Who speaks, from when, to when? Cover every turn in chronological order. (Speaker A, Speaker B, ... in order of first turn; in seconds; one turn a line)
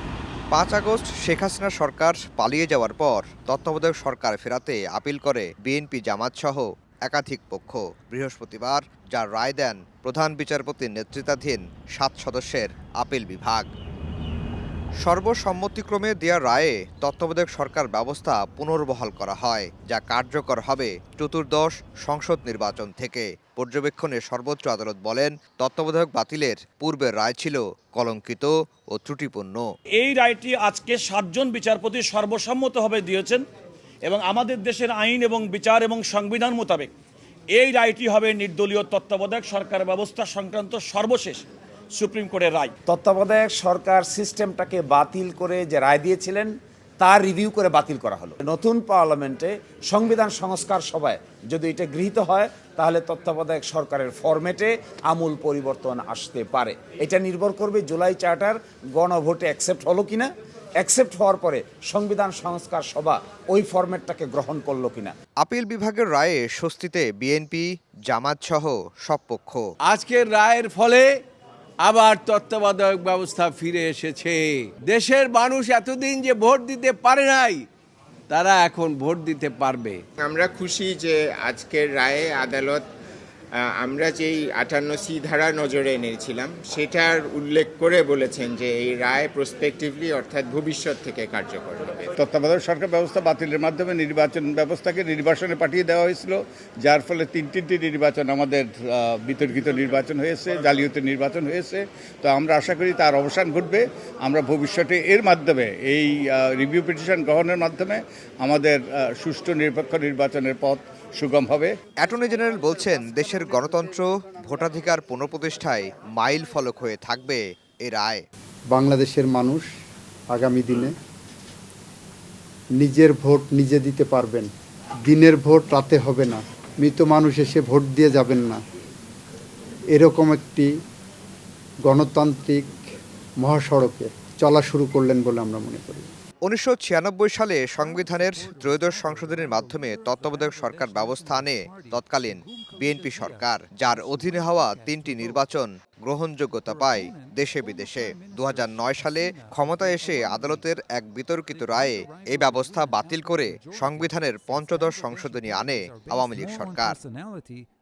Speaker A: 0.5-13.7
Speaker A: 15.0-29.7
Speaker B: 30.0-33.4
Speaker B: 34.1-36.9
Speaker B: 37.6-41.4
Speaker B: 42.0-42.7
Speaker C: 42.9-65.1
Speaker A: 65.4-69.7
Speaker D: 69.9-71.2
Speaker D: 71.8-77.7
Speaker D: 78.3-80.0
Speaker E: 80.2-82.8
Speaker E: 83.5-92.1
Speaker F: 92.2-111.7
Speaker A: 112.0-118.2
Speaker G: 118.7-119.6
Speaker G: 120.3-120.9
Speaker G: 122.8-124.5
Speaker G: 125.1-128.6
Speaker G: 129.9-130.7
Speaker G: 131.9-132.8
Speaker G: 133.4-136.0
Speaker A: 136.5-157.0